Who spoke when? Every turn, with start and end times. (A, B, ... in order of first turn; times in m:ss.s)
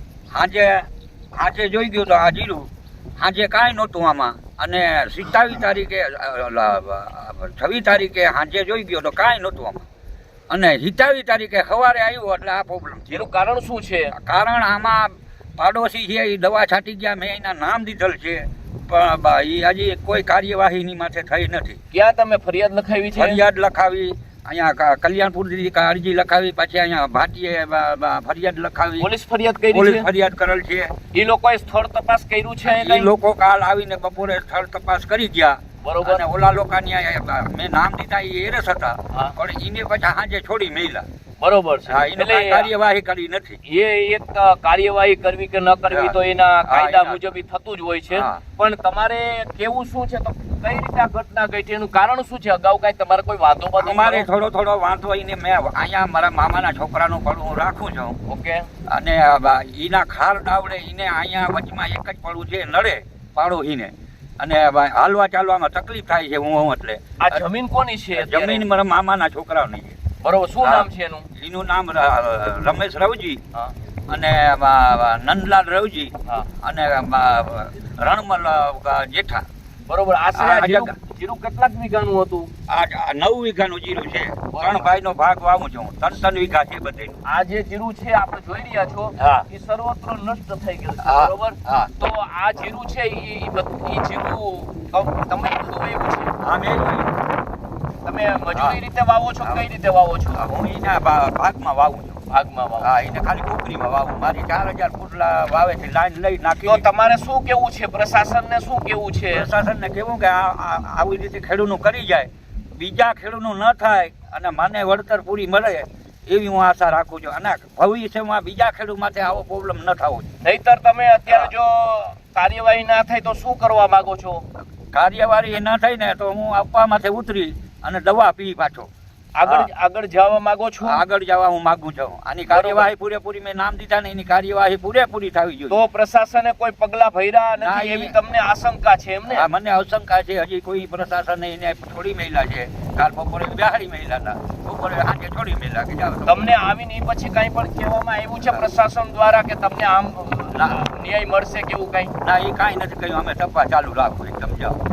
0:00.3-0:09.9 A
0:10.5-0:13.3 A
0:13.1-0:14.1 B
0:14.1-0:21.8 A
0:21.9-0:23.4 B
0:23.2-0:29.1 A
0:29.0-0:30.1 B
0:29.7-0:31.0 A
0:31.1-0:33.1 B
0:32.7-0:41.1 A
0:35.8-0:36.2 B
0:41.4-0:42.7 B
0:41.9-0:43.6 A
0:43.7-0:54.3 B
0:45.9-0:47.2 A
0:48.1-0:48.4 A
0:53.8-0:58.2 A
0:58.3-0:58.7 B
0:58.9-1:07.4 A
1:07.2-1:08.6 B
1:08.2-1:10.0 A
1:10.2-1:11.3 B
1:10.6-1:13.4 A
1:14.1-1:19.4 A
1:19.9-1:22.5 B
1:20.4-1:20.9 A
1:22.7-1:27.2 A
1:24.5-1:24.9 B
1:27.3-1:36.3 B
1:29.2-1:29.4 A
1:31.0-1:31.9 A
1:36.4-1:37.1 A
1:38.0-1:40.4 B
1:38.5-1:38.8 A
1:40.3-1:42.2 A
1:42.3-1:42.9 B
1:42.8-1:46.9 A
1:46.6-1:49.5 B
1:49.3-2:00.3 A
2:00.4-2:04.4 B
2:04.9-2:08.9 A
2:09.4-2:11.0 B
2:09.4-2:09.7 A
2:10.8-2:15.8 A
2:12.5-2:12.9 B
2:15.7-2:19.5 B
2:17.6-2:18.2 A
2:19.3-2:26.4 A
2:26.3-2:32.1 B
2:32.2-2:34.8 A